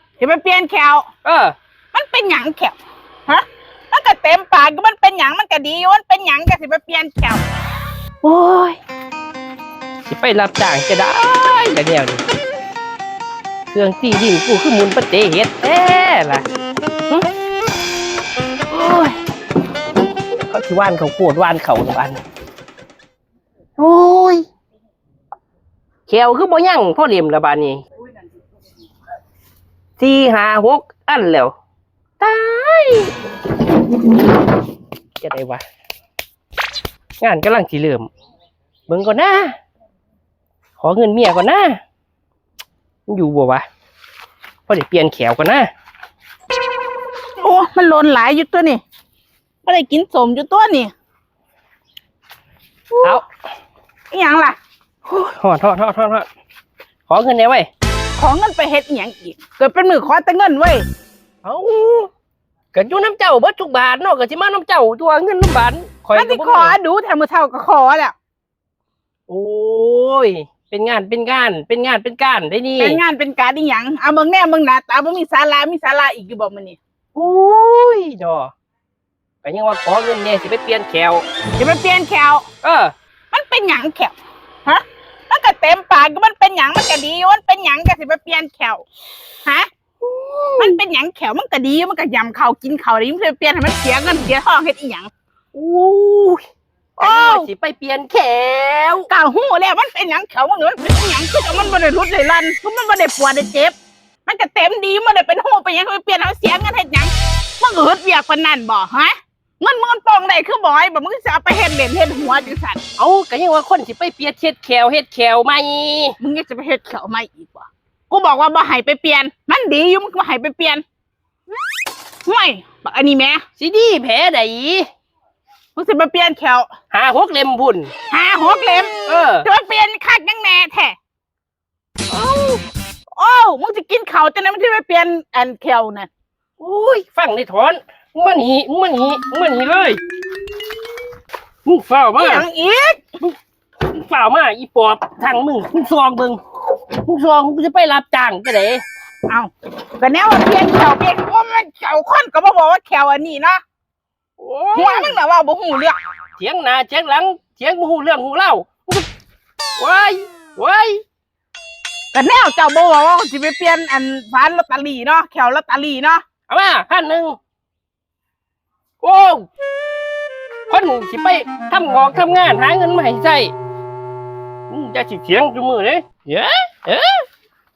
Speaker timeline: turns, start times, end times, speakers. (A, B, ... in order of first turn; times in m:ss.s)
0:00.2-0:01.1 A
0:01.2-0:01.6 B
0:01.9-0:07.4 A
0:08.2-0:08.8 B
0:10.1-0:12.2 B
0:13.7-0:16.4 B
0:18.7-0:19.2 B
0:20.5-0:22.2 B
0:23.8-0:24.4 B
0:26.1-0:27.8 B
0:30.0-0:31.5 B
0:32.2-0:33.1 B
0:35.2-0:35.6 B
0:37.2-0:38.1 B
0:38.9-0:39.6 B
0:40.8-0:41.8 B
0:43.1-0:43.6 B
0:44.7-0:45.7 B
0:47.4-0:48.8 A
0:49.6-0:50.9 A
0:52.9-0:53.2 A
0:54.1-0:54.6 A
0:55.1-0:56.3 B
0:57.1-0:57.7 B
0:58.2-1:00.8 A
1:01.4-1:02.1 B
1:02.7-1:06.8 B
1:06.1-1:08.2 A
1:09.3-1:13.0 B
1:12.8-1:16.8 A
1:17.2-1:18.5 B
1:19.4-1:21.2 B
1:21.6-1:22.5 A
1:22.6-1:22.9 B
1:23.3-1:28.8 A
1:30.0-1:30.8 B
1:30.6-1:35.1 A
1:35.5-1:36.4 B
1:37.0-1:39.1 B
1:37.0-1:37.5 A
1:39.1-1:43.7 A
1:44.3-1:52.8 A
1:53.0-1:56.2 B
1:56.2-2:00.8 A
2:02.3-2:03.4 A
2:03.6-2:04.9 B
2:05.8-2:06.7 A
2:06.9-2:07.9 B
2:08.1-2:11.0 A
2:09.1-2:09.5 B
2:12.1-2:12.6 B
2:13.2-2:16.1 A
2:16.6-2:20.0 B
2:21.6-2:22.4 B
2:22.2-2:23.0 A
2:23.9-2:26.4 B
2:27.0-2:28.8 B
2:29.3-2:33.6 A
2:34.4-2:35.2 B
2:34.7-2:36.0 A
2:36.4-2:39.1 B
2:39.8-2:41.0 B
2:42.1-2:46.2 A
2:46.5-2:47.4 B
2:49.0-2:49.5 B
2:50.7-2:53.5 B
2:54.7-2:57.2 B